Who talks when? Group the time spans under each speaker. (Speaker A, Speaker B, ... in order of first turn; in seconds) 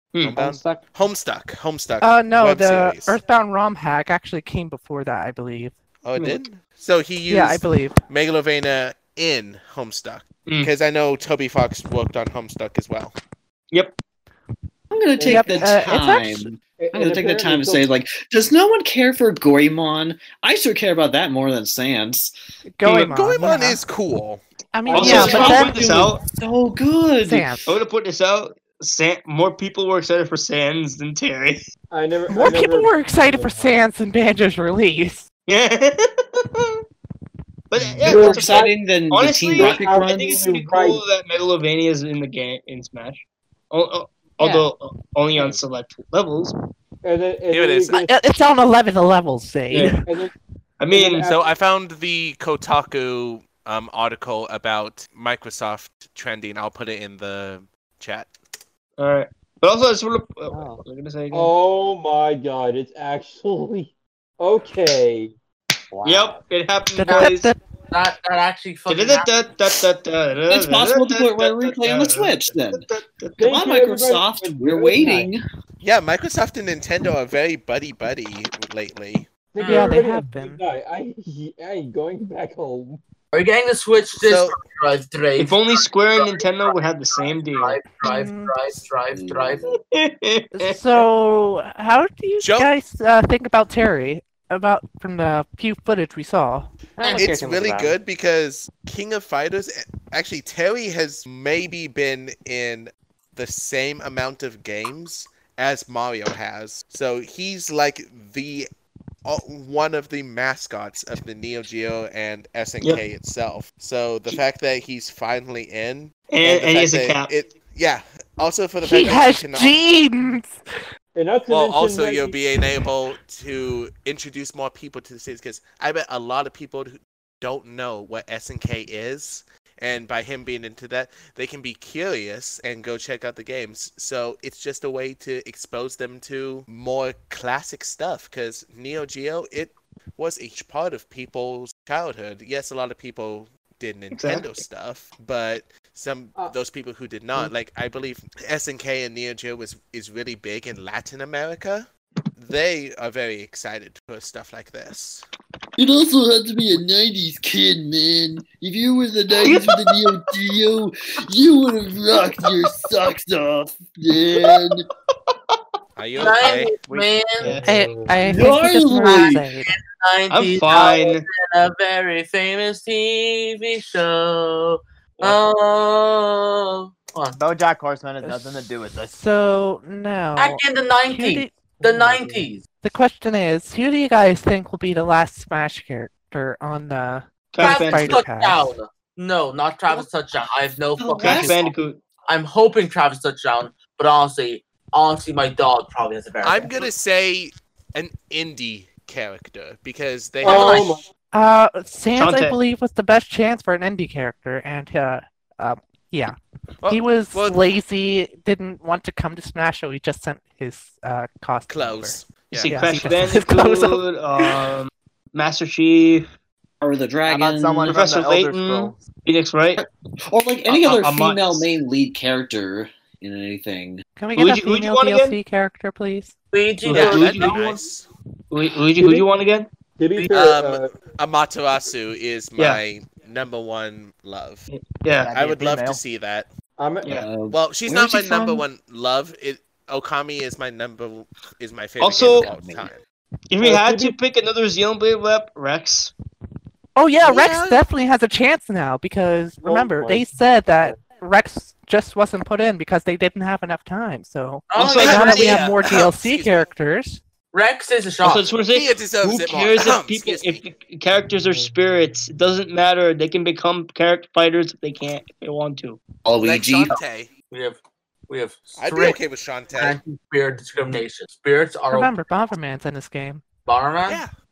Speaker A: 0.2-0.8, 44.4-44.7, 45.3-45.6, 60.5-60.8, 65.9-66.4, 97.0-98.0
Speaker B: 0.2-3.2, 6.0-13.1, 22.9-24.4, 47.5-48.0, 51.2-58.3, 75.8-79.3, 84.2-84.6, 92.4-92.7, 97.1-108.7, 109.2-119.7, 121.5-155.2, 165.9-166.7, 196.4-200.9, 206.8-207.6, 211.7-213.2, 226.9-228.1, 230.3-234.7, 235.3-236.5, 237.5-243.0, 247.2-247.8, 255.0-256.7, 258.7-260.6, 266.4-267.3, 268.8-270.0, 274.1-274.3
Speaker C: 2.0-5.8, 7.3-8.0, 15.2-16.4, 22.8-23.8, 24.7-25.9, 27.2-27.7, 32.3-35.3, 47.9-50.0, 67.0-67.6, 79.6-80.6, 88.0-88.6, 90.5-96.7, 118.8-120.6, 167.7-169.7, 178.2-178.5, 179.1-181.7, 182.8-188.7, 201.3-206.4, 206.9-214.0, 224.2-226.3, 246.9-257.2, 271.9-273.4
Speaker D: 10.5-10.7, 24.9-26.2, 27.7-31.7, 35.5-36.8, 37.7-46.5, 49.7-50.0, 50.8-51.3, 59.0-61.5, 66.0-67.5, 68.9-73.5, 85.4-87.8, 89.6-91.0, 116.3-117.3, 144.1-144.6, 159.4-159.8, 167.4-167.7, 170.3-171.3, 187.5-188.2, 191.2-192.0, 202.1-202.6, 212.5-216.3, 217.9-219.8, 220.7-221.7, 224.3-225.4, 226.8-227.8, 228.5-229.7, 232.6-232.8, 234.7-235.3, 237.0-237.3, 242.0-242.5, 243.5-246.1, 254.7-255.7, 258.2-266.0
Speaker E: 14.9-22.3, 24.9-27.6, 38.0-40.2, 70.5-72.9, 73.4-75.4, 89.1-89.7, 155.8-164.9, 168.2-169.4, 191.0-191.6, 216.8-217.9, 219.8-224.0, 237.2-238.7, 242.2-242.9, 266.2-267.0
Speaker F: 15.2-15.7, 16.8-17.9, 24.9-25.4, 31.9-33.8, 38.0-38.7, 39.5-41.0, 47.0-48.1, 50.0-50.3, 50.9-51.4, 61.3-65.3, 73.4-75.3, 79.5-83.0, 121.1-122.4, 167.4-168.2, 181.8-182.4, 200.4-201.1, 229.0-229.2, 230.0-230.9, 236.8-237.2, 243.6-244.2, 249.6-251.0
Speaker G: 67.9-69.3, 79.6-80.0, 83.3-89.7, 166.2-167.5, 169.7-177.4, 180.4-182.6, 187.6-191.7, 192.3-196.8, 200.4-200.9, 226.5-227.6, 254.7-255.7, 257.5-258.6, 267.5-267.8, 268.3-269.2, 269.7-272.1, 273.7-274.2
Speaker H: 166.9-167.1, 177.4-179.1, 217.3-219.0, 235.2-236.0